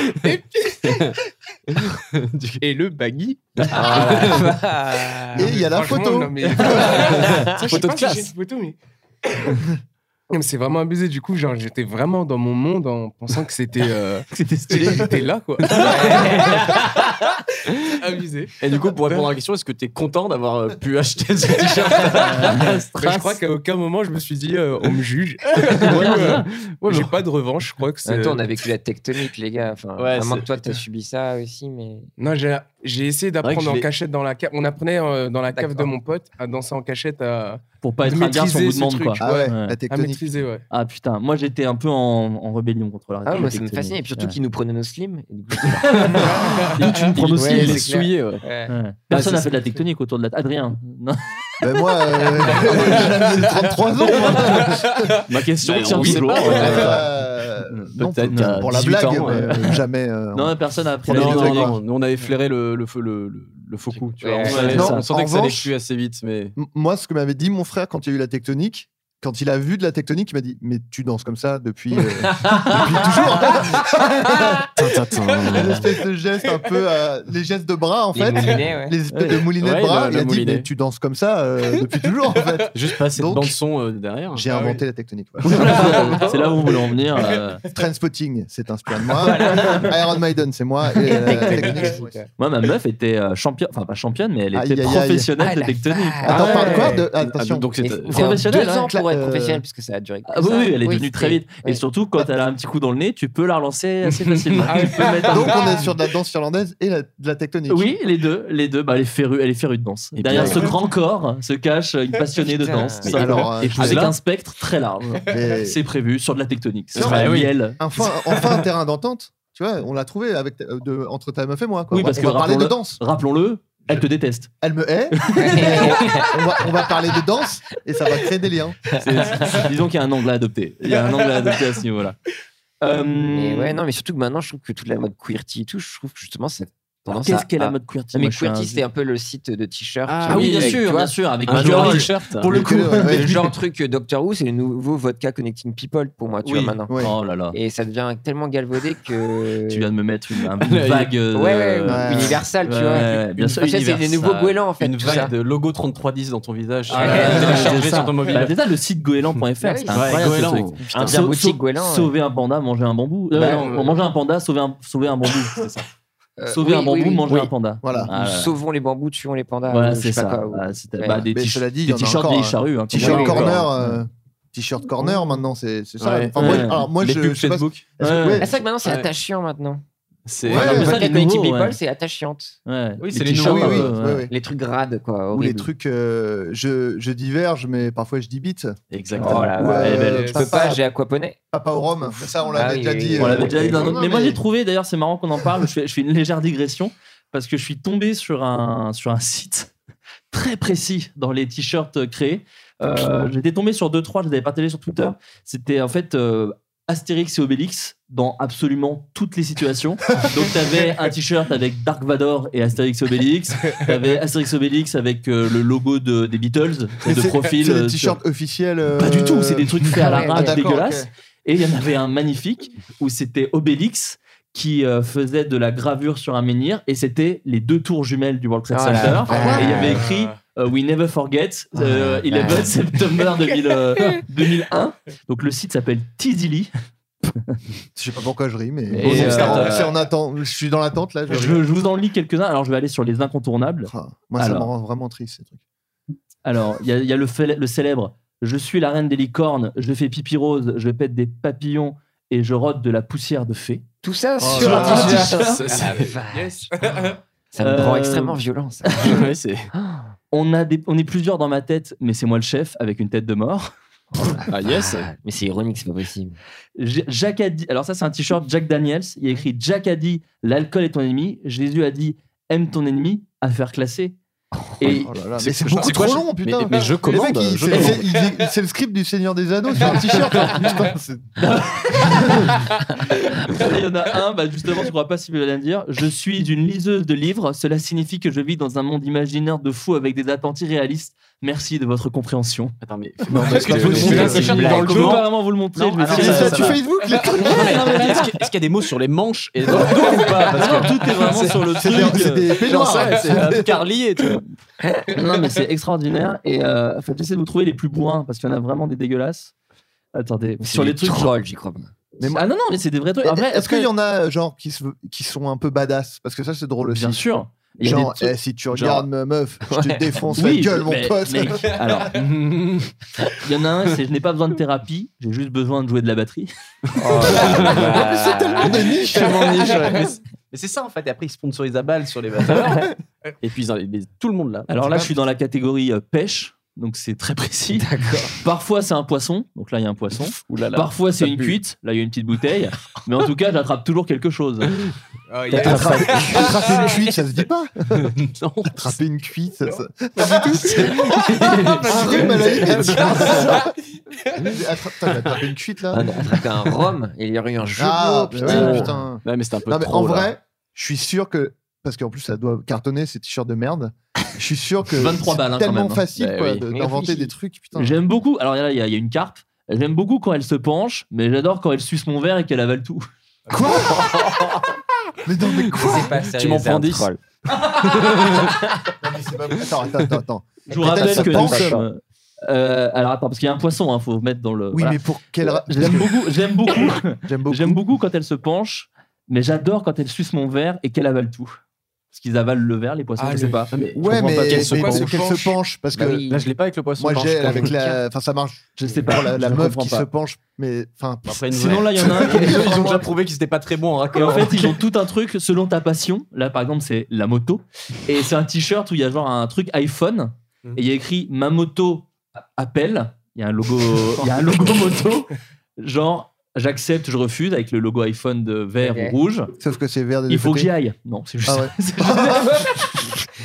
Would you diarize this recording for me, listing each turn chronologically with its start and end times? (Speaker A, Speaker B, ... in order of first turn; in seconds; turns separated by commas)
Speaker A: 0.2-1.1, Speaker B: 0.8-1.1, Speaker B: 1.7-2.6, Speaker A: 2.6-4.4, Speaker C: 3.7-4.3, Speaker D: 3.8-5.2, Speaker B: 3.9-4.5, Speaker A: 5.0-8.8, Speaker C: 5.3-6.7, Speaker D: 6.8-7.5, Speaker B: 6.9-8.3, Speaker A: 10.3-16.8, Speaker E: 14.3-15.2, Speaker D: 15.8-16.9, Speaker A: 17.9-19.3, Speaker B: 18.6-22.7, Speaker A: 21.9-28.4, Speaker E: 22.2-23.4, Speaker B: 25.7-27.2, Speaker E: 25.8-26.4, Speaker D: 28.0-32.1, Speaker B: 30.0-30.8, Speaker A: 32.2-40.6, Speaker B: 33.4-33.9, Speaker D: 35.5-35.9, Speaker E: 37.8-39.8, Speaker C: 39.2-40.2, Speaker E: 40.7-44.4, Speaker D: 43.2-46.7, Speaker A: 46.3-47.0, Speaker E: 46.6-47.9, Speaker B: 47.0-48.4, Speaker D: 47.3-48.7, Speaker E: 48.7-51.2, Speaker C: 49.1-49.6, Speaker C: 51.6-55.1, Speaker A: 52.5-55.2, Speaker E: 55.3-57.0, Speaker B: 55.6-57.1, Speaker C: 56.5-61.8, Speaker B: 57.7-59.8, Speaker E: 58.3-59.6, Speaker E: 60.3-61.8, Speaker B: 61.1-66.5, Speaker D: 64.2-64.9, Speaker E: 64.4-65.0, Speaker C: 64.7-65.7, Speaker C: 66.5-74.7, Speaker D: 72.3-72.7, Speaker B: 74.8-75.8, Speaker C: 75.5-83.6, Speaker D: 78.1-79.0, Speaker E: 79.1-79.5, Speaker B: 79.6-80.7, Speaker B: 82.7-84.4, Speaker C: 84.3-86.4, Speaker A: 84.5-84.8, Speaker E: 85.5-87.6, Speaker A: 86.1-87.6, Speaker C: 87.7-92.2, Speaker D: 89.4-89.8, Speaker D: 91.1-92.3, Speaker E: 92.4-96.9, Speaker C: 94.5-95.3, Speaker D: 95.4-97.0, Speaker C: 96.2-97.7, Speaker B: 97.2-98.4, Speaker D: 97.8-101.8, Speaker E: 98.1-98.9, Speaker C: 98.3-99.6, Speaker E: 100.3-105.8, Speaker A: 104.7-105.8, Speaker C: 105.2-107.9, Speaker E: 107.7-117.8, Speaker B: 110.2-110.8, Speaker C: 110.3-110.7, Speaker D: 112.7-113.0, Speaker C: 113.0-114.2, Speaker B: 113.0-114.2, Speaker C: 115.3-115.8, Speaker B: 116.9-117.5, Speaker D: 117.0-117.2, Speaker C: 117.8-123.0, Speaker E: 121.9-124.5, Speaker C: 124.6-128.8, Speaker E: 125.2-125.9, Speaker D: 125.4-126.3, Speaker D: 128.9-129.7, Speaker B: 129.0-129.7, Speaker E: 129.5-132.2, Speaker E: 132.8-133.8, Speaker D: 133.3-142.0, Speaker E: 137.1-138.8, Speaker B: 140.1-140.8, Speaker E: 140.3-143.5, Speaker B: 141.4-142.6, Speaker C: 142.4-143.5, Speaker D: 143.0-146.9, Speaker E: 146.4-147.5, Speaker C: 146.9-147.2, Speaker D: 147.5-149.9, Speaker E: 149.7-154.6, Speaker B: 150.6-151.1, Speaker D: 151.3-155.3, Speaker C: 151.9-152.4, Speaker B: 152.9-153.8, Speaker B: 154.8-158.6, Speaker E: 156.9-165.8, Speaker D: 156.9-157.9, Speaker D: 159.6-160.3, Speaker B: 159.9-161.2, Speaker D: 160.9-162.1, Speaker B: 163.3-163.9, Speaker A: 163.4-163.8, Speaker D: 166.4-167.3, Speaker E: 166.5-168.5, Speaker C: 167.8-168.1, Speaker D: 168.1-171.2, Speaker E: 169.7-173.6, Speaker C: 171.3-178.5, Speaker B: 172.9-174.0, Speaker B: 176.0-177.8, Speaker E: 176.3-176.9, Speaker E: 178.0-178.4, Speaker D: 178.4-179.8, Speaker B: 178.8-179.1, Speaker B: 180.2-181.1, Speaker C: 180.4-181.0, Speaker D: 180.4-182.6, Speaker E: 180.5-181.8, Speaker E: 182.7-184.3, Speaker B: 183.0-183.9, Speaker C: 183.4-184.3, Speaker D: 184.3-185.7, Speaker C: 185.3-190.8, Speaker B: 188.9-189.5, Speaker D: 189.2-191.4, Speaker E: 189.3-190.4, Speaker A: 190.1-190.4, Speaker C: 191.5-194.4, Speaker D: 192.5-193.8, Speaker E: 193.2-199.7, Speaker E: 200.3-218.2, Speaker C: 217.0-221.1, Speaker E: 219.0-236.7, Speaker D: 220.0-220.6, Speaker D: 228.7-230.0, Speaker C: 229.3-229.7, Speaker A: 230.0-230.3, Speaker D: 231.7-232.7, Speaker C: 237.9-241.6, Speaker B: 238.9-239.9, Speaker E: 238.9-239.9, Speaker E: 241.3-244.7, Speaker C: 243.8-245.6, Speaker E: 246.4-253.8, Speaker D: 254.0-256.7, Speaker B: 254.4-256.1, Speaker E: 254.5-255.6, Speaker A: 254.6-257.2, Speaker D: 257.5-259.2, Speaker E: 257.6-259.2, Speaker B: 259.0-259.7, Speaker D: 259.7-260.1, Speaker E: 260.3-263.7, Speaker B: 264.5-265.1, Speaker D: 264.6-266.4, Speaker E: 266.8-274.1, Speaker E: 274.8-275.1, Speaker B: 274.8-278.0, Speaker C: 274.9-281.4, Speaker E: 277.7-278.0, Speaker B: 279.9-280.7, Speaker E: 281.4-292.7, Speaker B: 292.8-296.8, Speaker C: 293.3-294.9, Speaker E: 293.3-296.8, Speaker A: 294.1-294.6, Speaker C: 296.1-297.9, Speaker B: 297.4-304.4, Speaker E: 297.4-298.3, Speaker E: 300.5-302.5, Speaker C: 301.8-303.8, Speaker D: 304.8-305.1, Speaker E: 305.1-309.5, Speaker E: 310.1-311.3, Speaker D: 310.6-311.9, Speaker C: 312.2-312.4, Speaker E: 312.2-313.9, Speaker C: 313.2-317.3, Speaker E: 316.9-318.3, Speaker C: 317.8-321.7, Speaker B: 318.7-319.1, Speaker D: 319.7-320.1, Speaker E: 320.3-322.2, Speaker B: 322.1-322.9, Speaker E: 323.4-326.5, Speaker D: 326.9-329.8, Speaker B: 327.1-334.7, Speaker C: 327.9-330.1, Speaker E: 334.7-344.8, Speaker D: 337.8-338.3, Speaker B: 340.1-341.6, Speaker A: 345.3-347.0, Speaker B: 345.5-346.4, Speaker C: 345.5-348.1, Speaker B: 348.2-348.9, Speaker C: 348.7-351.1, Speaker A: 349.7-354.5, Speaker B: 351.0-353.4, Speaker C: 351.9-353.6, Speaker C: 354.4-356.1, Speaker D: 355.9-358.8, Speaker C: 357.8-368.0, Speaker E: 358.4-359.0, Speaker B: 358.4-360.3, Speaker E: 364.9-366.0, Speaker B: 366.1-366.6, Speaker D: 366.7-367.3, Speaker E: 367.8-373.0, Speaker D: 373.6-374.6, Speaker C: 375.2-376.2, Speaker D: 375.8-377.2, Speaker B: 376.2-378.6, Speaker C: 379.0-381.8, Speaker D: 380.7-381.9, Speaker E: 380.7-391.6, Speaker C: 384.7-386.2, Speaker C: 387.1-387.9, Speaker E: 392.1-394.8, Speaker A: 393.2-393.7, Speaker B: 393.7-395.2, Speaker C: 393.9-396.2, Speaker A: 394.6-395.6, Speaker D: 395.9-396.5, Speaker B: 396.3-397.7, Speaker C: 397.0-403.1, Speaker D: 397.4-398.0, Speaker E: 398.8-400.1, Speaker B: 401.2-404.8, Speaker E: 401.6-402.8, Speaker E: 404.1-419.5, Speaker D: 418.8-419.2, Speaker C: 419.6-420.7, Speaker E: 420.3-422.9, Speaker C: 421.4-422.7